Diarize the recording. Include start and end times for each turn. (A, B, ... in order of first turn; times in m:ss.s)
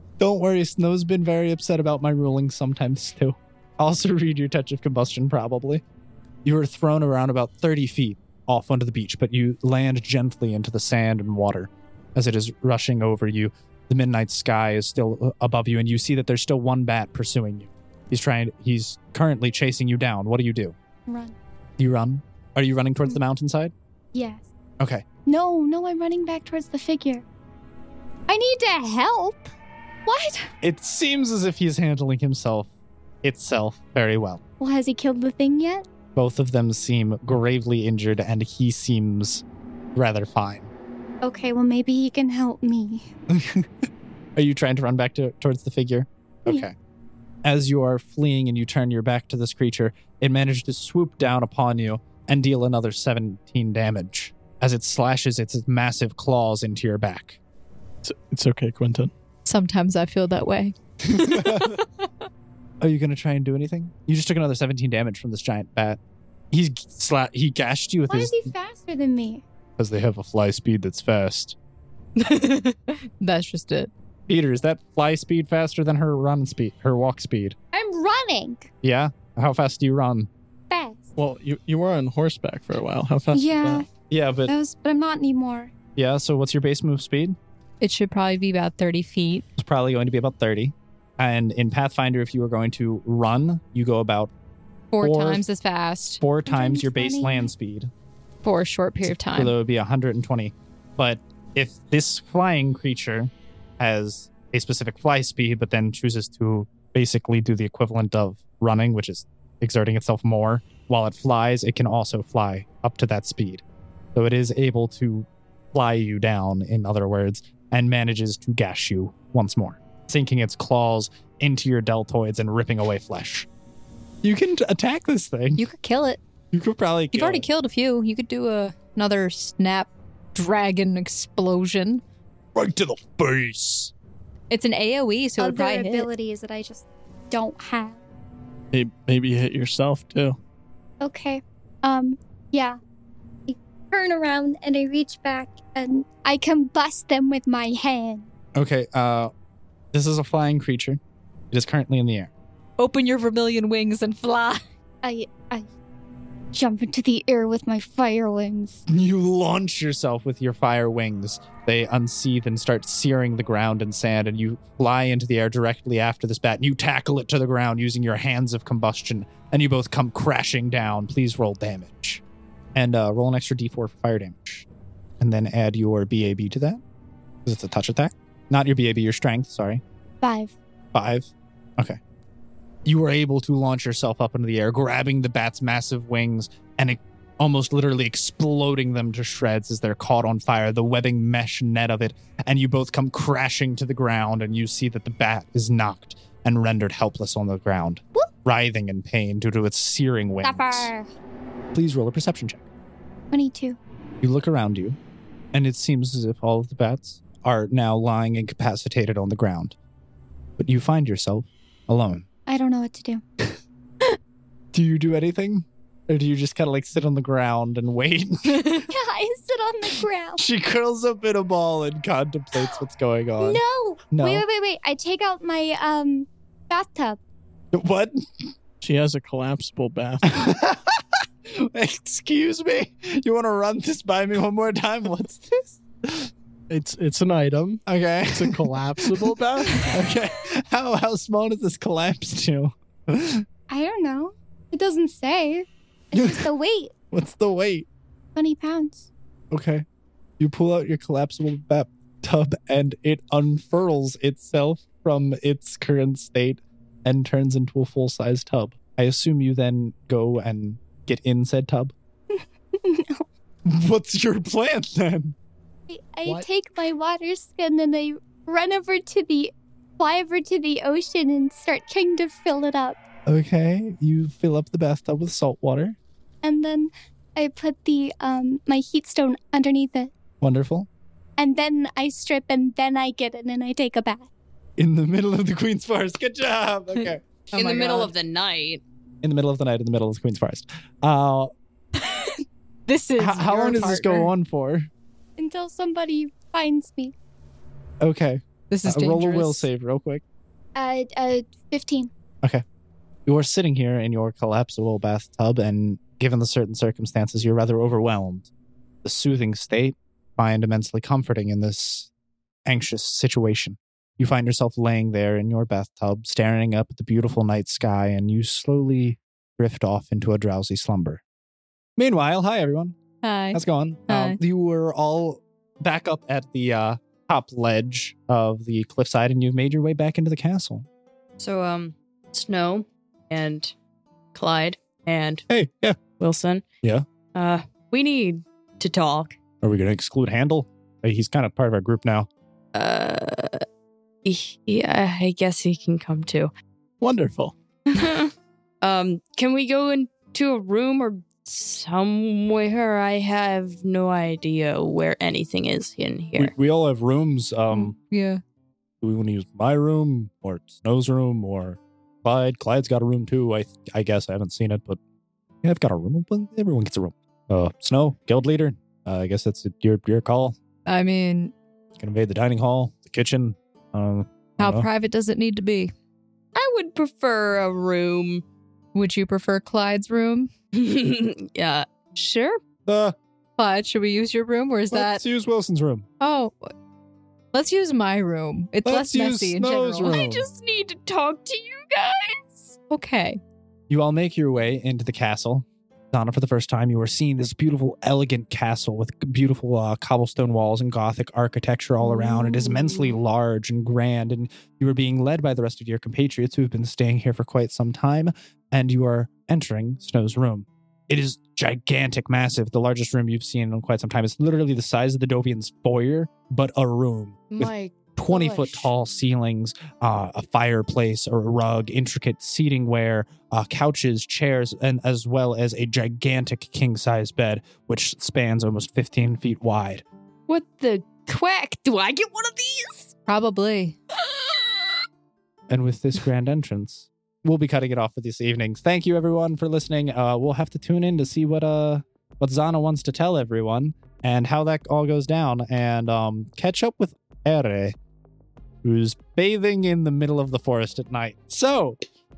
0:00.2-0:05.8 A
0:06.4-0:20.7 A
0:21.1-0:21.3 B
0:21.8-0:23.7 A
0:24.1-0:24.5 B
0:24.8-0:25.0 A
0:25.2-0:27.2 B
0:28.3-0:29.5 B
0:30.0-0:30.5 B
0:30.6-0:32.7 A
0:33.2-0:34.4 A
0:34.6-0:35.8 B
0:36.1-0:39.4 A
0:39.9-0:40.7 A
0:41.2-0:43.1 B
0:43.3-0:43.7 A
0:44.4-0:46.7 A
0:47.4-0:57.4 A
0:58.0-0:59.1 C
0:59.4-1:01.7 D
1:01.1-1:01.8 A
1:02.8-1:06.0 A
1:06.5-1:08.4 A
1:08.1-1:09.4 B
1:09.8-1:11.6 A
1:12.2-1:13.9 D
1:14.3-1:17.6 A
1:17.7-1:18.7 B
1:18.8-1:20.3 A
1:20.7-1:21.1 B
1:21.2-1:23.8 C
1:23.3-1:23.9 B
1:24.1-1:24.5 A
1:24.5-1:25.7 B
1:26.0-1:27.4 A
1:27.8-1:29.5 D
1:29.6-1:34.3 A
1:34.9-1:36.2 D
1:35.0-1:35.4 A
1:36.2-1:37.9 A
1:36.4-1:37.5 B
1:38.4-1:39.5 D
1:39.3-1:53.6 A
1:54.1-2:03.5 A
2:04.2-2:05.6 A
2:05.6-2:06.2 D
2:06.5-2:07.4 A
2:07.1-2:12.0 D
2:12.5-2:13.9 A
2:14.5-2:16.1 D
2:15.4-2:18.0 B
2:18.7-2:20.4 C
2:21.0-2:22.8 B
2:23.5-2:28.3 B
2:28.6-2:29.3 A
2:29.9-2:31.0 A
2:31.5-2:32.3 A
2:32.8-2:34.6 D
2:35.0-2:35.7 B
2:36.5-2:38.8 B
2:38.9-2:52.2 A
2:52.7-2:54.6 A
2:55.2-2:56.8 A
2:57.4-2:59.8 A
3:00.2-3:00.5 B
3:00.9-3:02.0 A
3:02.8-3:20.9 A
3:20.4-3:21.1 B
3:21.7-3:22.6 A
3:23.3-3:23.8 B
3:24.2-3:25.0 A
3:25.5-3:29.8 A
3:30.6-3:32.2 A
3:32.5-3:33.2 B
3:34.7-3:38.8 A
3:38.9-3:40.4 B
3:40.4-3:44.4 A
3:43.4-3:47.2 B
3:47.7-3:48.2 A
3:48.8-3:50.4 C
3:50.3-3:56.3 A
3:56.7-3:57.8 C
3:57.8-4:03.4 A
3:58.3-3:59.9 C
4:03.7-4:06.9 B
4:06.1-4:06.5 A
4:07.1-4:07.9 A
4:08.4-4:09.1 B
4:09.5-4:09.8 A
4:10.4-4:21.9 A
4:22.3-4:23.2 B
4:23.6-4:25.4 A
4:25.9-4:33.0 B
4:33.2-4:36.0 A
4:36.4-4:40.1 B
4:40.4-4:40.9 A
4:41.4-4:44.3 B
4:44.8-4:47.2 A
4:47.5-4:48.8 E
4:47.5-4:48.1 D
4:49.2-4:51.5 A
4:52.0-4:52.3 D
4:52.9-4:54.3 D
4:53.2-4:54.9 A
4:55.4-4:57.1 B
4:58.0-5:00.2 A
4:58.7-4:59.6 D
5:00.7-5:02.1 B
5:03.2-5:08.5 A
5:09.0-5:12.1 A
5:12.6-5:21.2 A
5:22.0-5:23.0 A
5:23.2-5:24.4 D
5:23.5-5:30.8 A
5:31.4-5:33.7 E
5:34.3-5:35.4 E
5:35.5-5:36.0 A
5:36.2-5:36.6 E
5:37.3-5:39.3 E
5:39.6-5:42.3 A
5:42.7-5:43.6 E
5:44.2-5:46.5 E
5:47.0-5:47.6 C
5:47.9-5:48.3 E
5:48.8-5:56.5 E
5:56.4-5:58.0 A
5:57.7-5:58.4 D
5:59.0-6:05.0 A
6:05.6-6:10.6 A
6:10.8-6:11.5 D
6:12.0-6:14.9 A
6:14.6-6:15.9 D
6:16.5-6:18.4 E
6:18.9-6:20.5 D
6:20.7-6:22.6 E
6:22.8-6:23.2 A
6:23.6-6:25.2 D
6:24.9-6:26.1 A
6:26.2-6:26.7 D
6:27.5-6:30.3 D
6:28.8-6:30.5 A
6:30.0-6:32.8 E
6:32.9-6:33.4 D
6:33.9-7:10.0 A
6:57.6-6:58.0 D
7:10.5-7:13.1 E
7:13.2-7:14.0 D
7:15.7-7:28.0 A
7:28.8-7:32.0 A